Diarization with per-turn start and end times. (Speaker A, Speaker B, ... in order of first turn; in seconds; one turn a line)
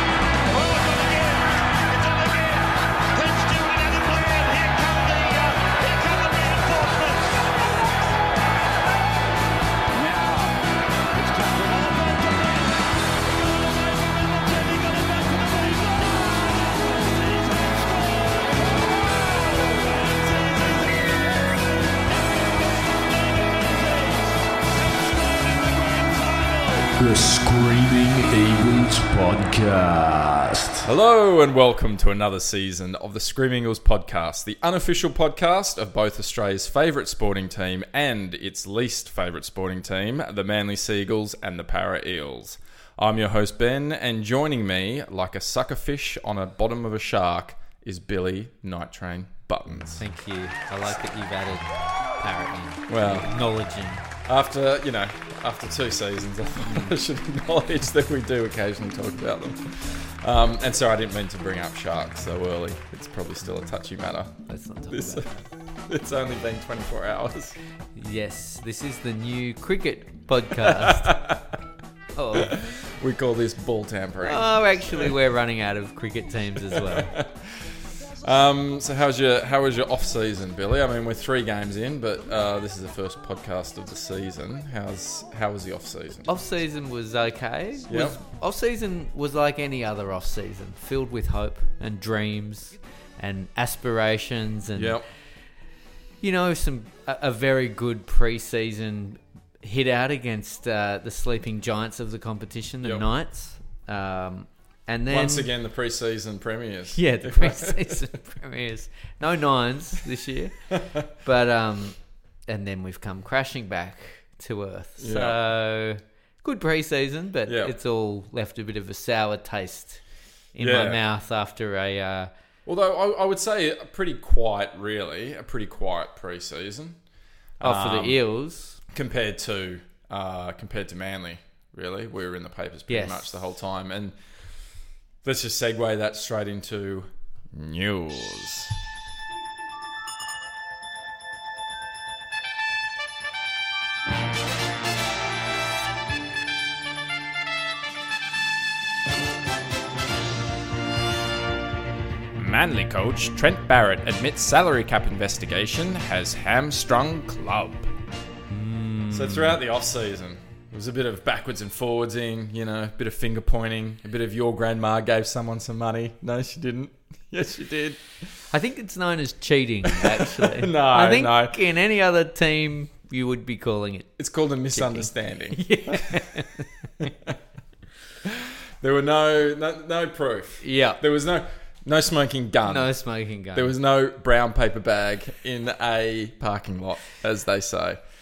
Speaker A: 0.5-7.7
Speaker A: 9.9-10.6
Speaker A: 11.1-12.8
Speaker A: 13.8-21.2
Speaker A: 23.4-24.3
Speaker A: 25.1-26.9
Speaker B: 27.0-30.9
Speaker C: 30.8-50.0
Speaker D: 50.0-51.7
Speaker D: 52.2-54.0
Speaker C: 52.9-53.3
Speaker C: 54.2-64.3
Speaker D: 56.6-57.0
Speaker D: 64.5-65.2
Speaker C: 64.9-65.3
Speaker C: 65.8-67.6
Speaker D: 67.9-71.3
Speaker C: 70.6-71.5
Speaker D: 72.1-72.6
Speaker C: 72.3-75.1
Speaker D: 74.2-77.2
Speaker C: 76.6-86.3
Speaker D: 86.2-95.0
Speaker C: 87.9-88.2
Speaker C: 94.7-95.0
Speaker D: 96.2-105.5
Speaker C: 105.1-108.0
Speaker D: 106.9-120.0
Speaker C: 110.7-111.0
Speaker C: 115.0-115.3
Speaker C: 117.5-117.7
Speaker D: 120.5-122.3
Speaker C: 120.6-121.0
Speaker C: 122.7-127.0
Speaker C: 127.6-128.2
Speaker D: 127.6-128.8
Speaker C: 128.9-134.2
Speaker D: 132.9-133.3
Speaker C: 135.2-138.8
Speaker C: 152.3-157.9
Speaker D: 158.5-159.6
Speaker C: 159.1-168.0
Speaker D: 168.5-174.1
Speaker C: 169.8-171.6
Speaker C: 174.2-176.4
Speaker D: 174.7-177.1
Speaker C: 178.2-182.9
Speaker D: 180.6-181.0
Speaker D: 182.7-183.7
Speaker C: 183.5-188.0